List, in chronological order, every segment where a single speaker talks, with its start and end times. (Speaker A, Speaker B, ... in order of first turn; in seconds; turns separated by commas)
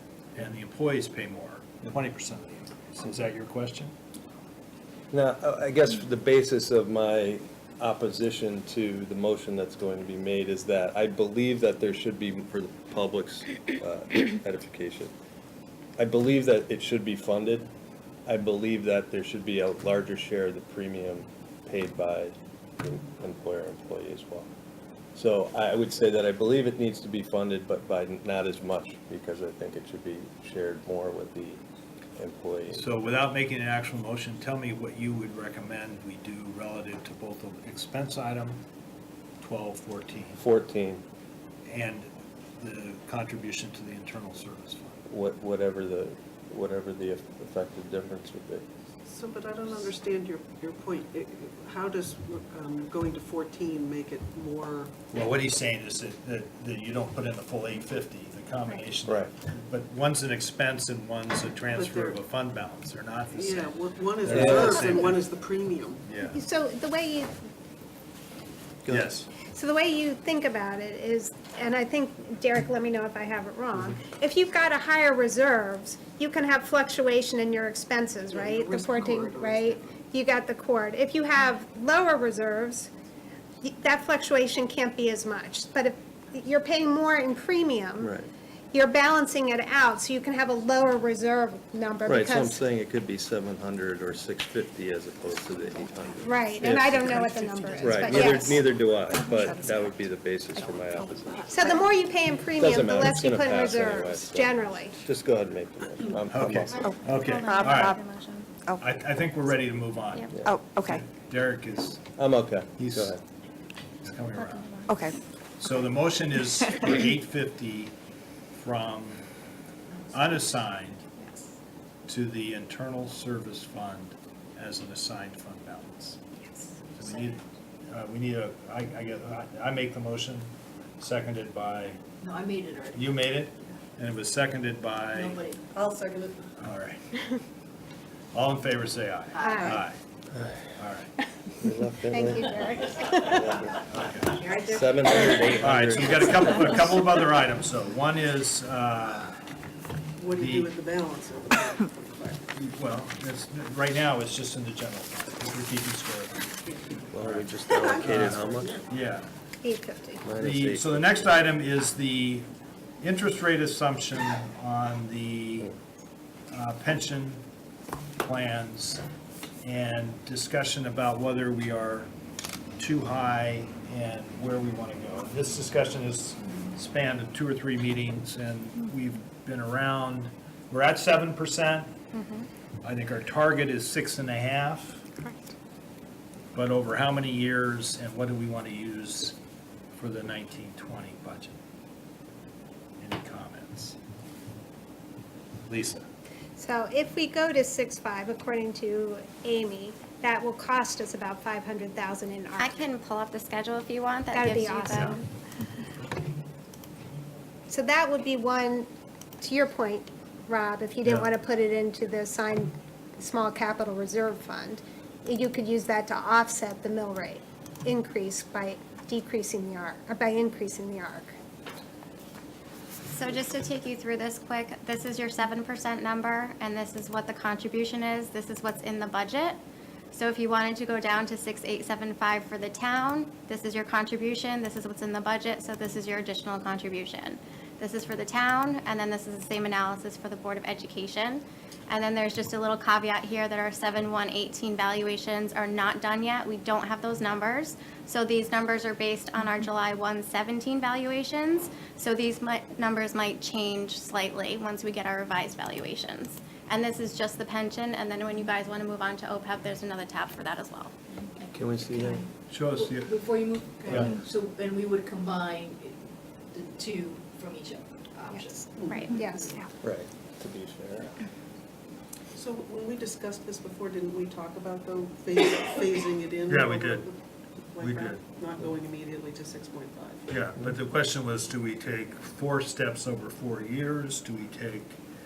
Speaker A: 0.3-4.0, Speaker B: 5.1-15.1, Speaker B: 16.0-17.7, Speaker B: 18.3-24.5, Speaker B: 25.1-31.6, Speaker B: 32.2-32.9, Speaker A: 32.7-38.6, Speaker A: 39.4-40.4, Speaker B: 40.4-41.0, Speaker A: 41.7-45.0, Speaker B: 45.1-48.6, Speaker C: 49.1-54.9, Speaker A: 55.1-65.2, Speaker B: 59.1-59.3, Speaker C: 61.7-62.2, Speaker C: 63.3-66.1, Speaker B: 64.3-64.9, Speaker A: 66.1-66.4, Speaker D: 66.2-67.3, Speaker B: 68.8-69.1, Speaker A: 68.9-69.3, Speaker D: 69.5-82.9, Speaker C: 78.3-80.0, Speaker D: 83.6-88.1, Speaker B: 88.0-88.3, Speaker D: 88.7-92.6, Speaker B: 92.1-101.5, Speaker D: 96.2-98.7, Speaker E: 97.0-98.5, Speaker E: 99.1-100.1, Speaker E: 100.6-101.1, Speaker D: 101.5-105.0, Speaker B: 102.6-106.8, Speaker A: 106.3-108.0, Speaker E: 106.8-108.0, Speaker F: 106.8-108.5, Speaker A: 108.8-110.3, Speaker E: 110.5-111.0, Speaker A: 110.8-112.0, Speaker B: 112.2-113.2, Speaker A: 112.8-113.2, Speaker A: 114.0-114.8, Speaker F: 114.4-115.1, Speaker E: 114.9-115.2, Speaker A: 115.6-117.9, Speaker A: 118.5-119.2, Speaker A: 120.1-121.0, Speaker A: 122.1-126.2, Speaker A: 127.0-132.0, Speaker G: 132.2-133.2, Speaker A: 132.9-135.4, Speaker G: 135.1-135.7, Speaker C: 135.7-136.5, Speaker A: 136.6-137.0, Speaker A: 138.3-140.0, Speaker G: 139.3-139.8, Speaker D: 139.4-139.8, Speaker A: 140.7-141.1, Speaker B: 141.6-146.9, Speaker D: 142.1-143.4, Speaker A: 143.9-144.4, Speaker G: 144.3-145.4, Speaker A: 145.6-149.3, Speaker C: 150.2-152.4, Speaker A: 150.3-150.7, Speaker A: 152.5-156.5, Speaker B: 157.1-158.8, Speaker A: 157.2-159.3, Speaker C: 157.7-158.9, Speaker D: 159.6-160.2, Speaker B: 160.2-161.3, Speaker A: 160.4-162.5, Speaker A: 163.0-165.7, Speaker A: 166.5-167.4, Speaker A: 168.2-169.0, Speaker A: 169.6-172.1, Speaker A: 172.8-182.0, Speaker F: 182.1-182.5, Speaker A: 182.8-185.0, Speaker A: 186.5-189.4, Speaker A: 189.9-191.6, Speaker A: 193.0-194.0, Speaker A: 195.7-196.1, Speaker D: 196.6-202.7, Speaker F: 202.6-205.3, Speaker D: 204.3-205.2, Speaker D: 207.7-208.9, Speaker D: 209.4-221.3, Speaker F: 223.1-229.6, Speaker F: 230.1-260.9, Speaker G: 261.4-266.0, Speaker B: 261.5-262.2, Speaker A: 262.5-263.2, Speaker A: 263.8-264.1, Speaker G: 266.5-268.7, Speaker C: 268.7-269.6, Speaker D: 269.1-269.6, Speaker B: 269.8-271.1, Speaker C: 272.4-277.2, Speaker A: 276.5-277.1, Speaker C: 277.7-280.3, Speaker A: 277.8-278.2, Speaker A: 280.3-285.0